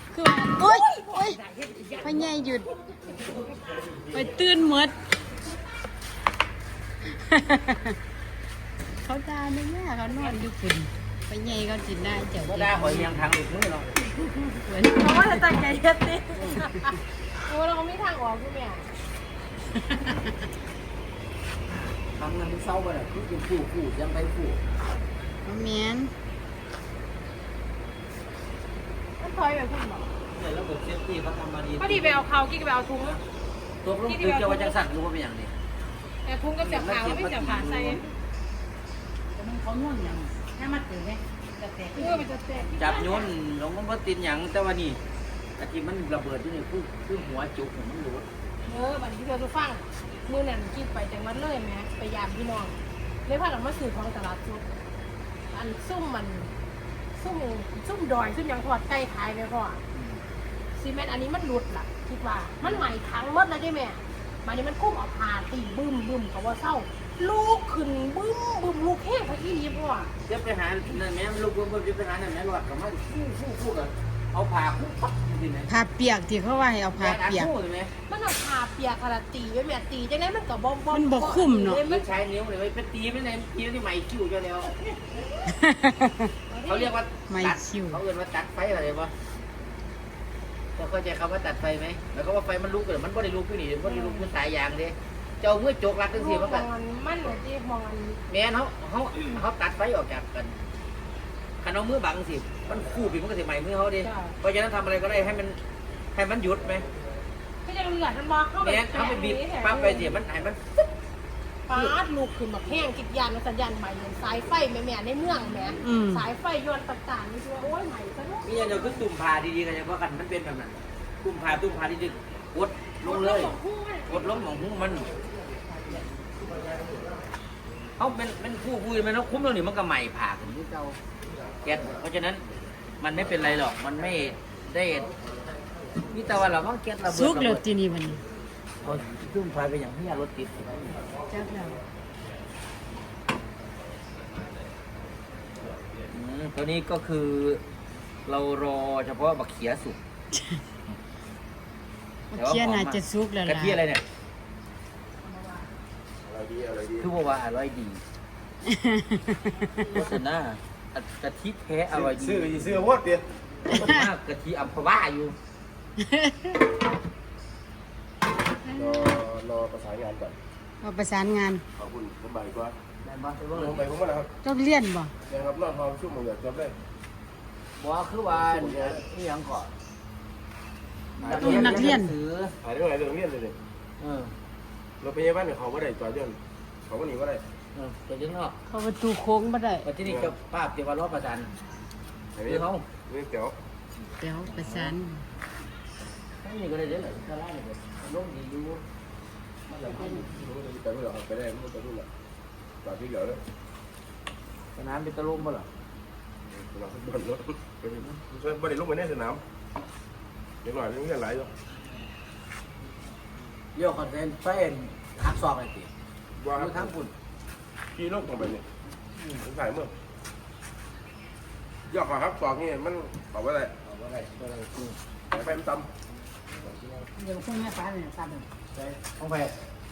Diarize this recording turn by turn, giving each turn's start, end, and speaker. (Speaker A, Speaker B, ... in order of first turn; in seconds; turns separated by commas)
Speaker A: 0.1-1.4, Speaker B: 0.5-2.1, Speaker A: 2.0-2.7, Speaker A: 4.1-5.0, Speaker A: 7.1-8.0, Speaker A: 9.0-13.2, Speaker C: 12.4-14.0, Speaker A: 14.6-15.6, Speaker B: 14.9-16.9, Speaker B: 17.4-18.9, Speaker C: 22.1-24.6, Speaker A: 25.4-26.1, Speaker B: 29.2-30.1, Speaker C: 30.3-32.2, Speaker B: 31.8-33.2, Speaker C: 33.8-35.5, Speaker B: 34.1-34.8, Speaker B: 36.2-38.1, Speaker C: 36.6-38.0, Speaker D: 39.3-42.2, Speaker B: 42.0-43.3, Speaker C: 42.8-45.0, Speaker C: 45.6-48.3, Speaker B: 48.6-54.6, Speaker B: 55.5-56.5, Speaker B: 57.1-59.8, Speaker C: 60.0-60.2, Speaker B: 60.8-70.1, Speaker C: 62.6-62.9, Speaker C: 70.2-75.7, Speaker A: 75.7-77.5, Speaker C: 77.0-77.9, Speaker B: 78.1-82.1, Speaker A: 80.9-81.8, Speaker C: 81.8-84.7, Speaker A: 85.5-86.3, Speaker B: 86.5-87.0, Speaker C: 86.7-89.1, Speaker A: 87.3-88.0, Speaker C: 90.8-96.7, Speaker B: 93.8-94.3, Speaker B: 96.1-98.2, Speaker C: 98.3-100.5, Speaker C: 101.6-105.6, Speaker B: 104.0-104.3, Speaker C: 106.1-106.8, Speaker B: 107.6-110.2, Speaker C: 108.6-110.6, Speaker B: 111.7-119.0, Speaker A: 115.8-116.3, Speaker C: 118.4-123.5, Speaker B: 123.0-124.4, Speaker C: 124.1-125.1, Speaker C: 128.0-131.0, Speaker C: 131.6-132.4, Speaker C: 133.0-135.1, Speaker C: 136.0-137.6, Speaker A: 137.1-138.2, Speaker C: 138.8-141.0, Speaker A: 141.3-141.8, Speaker C: 146.1-147.6, Speaker C: 148.3-150.0, Speaker A: 150.3-150.6, Speaker A: 152.3-153.8, Speaker C: 152.4-154.0, Speaker B: 155.2-155.7, Speaker E: 156.2-157.1, Speaker C: 157.0-158.0, Speaker A: 158.6-160.0, Speaker C: 159.8-162.8, Speaker E: 161.9-163.3, Speaker C: 163.7-165.4, Speaker A: 166.0-166.6, Speaker A: 168.7-169.2, Speaker E: 168.8-170.4, Speaker A: 170.8-171.7, Speaker E: 171.8-172.8, Speaker C: 173.0-173.9, Speaker E: 173.6-174.3, Speaker A: 174.4-175.1, Speaker E: 175.3-176.8, Speaker C: 177.8-179.7, Speaker E: 178.4-179.0, Speaker C: 181.2-182.6, Speaker E: 181.2-181.9, Speaker A: 181.3-182.2, Speaker E: 182.6-183.6, Speaker C: 184.0-184.3, Speaker E: 185.0-187.4, Speaker C: 187.8-188.6, Speaker A: 188.7-189.9, Speaker C: 189.8-191.5, Speaker E: 190.0-190.3, Speaker E: 192.4-193.6, Speaker C: 192.4-192.9, Speaker A: 194.2-195.2, Speaker C: 194.5-194.9, Speaker C: 196.4-198.8, Speaker C: 199.7-200.3, Speaker E: 199.8-202.1, Speaker E: 202.8-203.4, Speaker C: 204.8-205.7, Speaker E: 206.5-209.4, Speaker E: 210.6-211.5, Speaker C: 213.8-215.9, Speaker E: 216.4-216.9, Speaker C: 216.5-217.1, Speaker E: 217.9-218.7, Speaker E: 219.4-219.9, Speaker E: 221.9-223.7, Speaker C: 223.8-225.0, Speaker E: 225.3-225.9, Speaker C: 226.6-227.1, Speaker D: 227.2-228.5, Speaker C: 228.8-229.5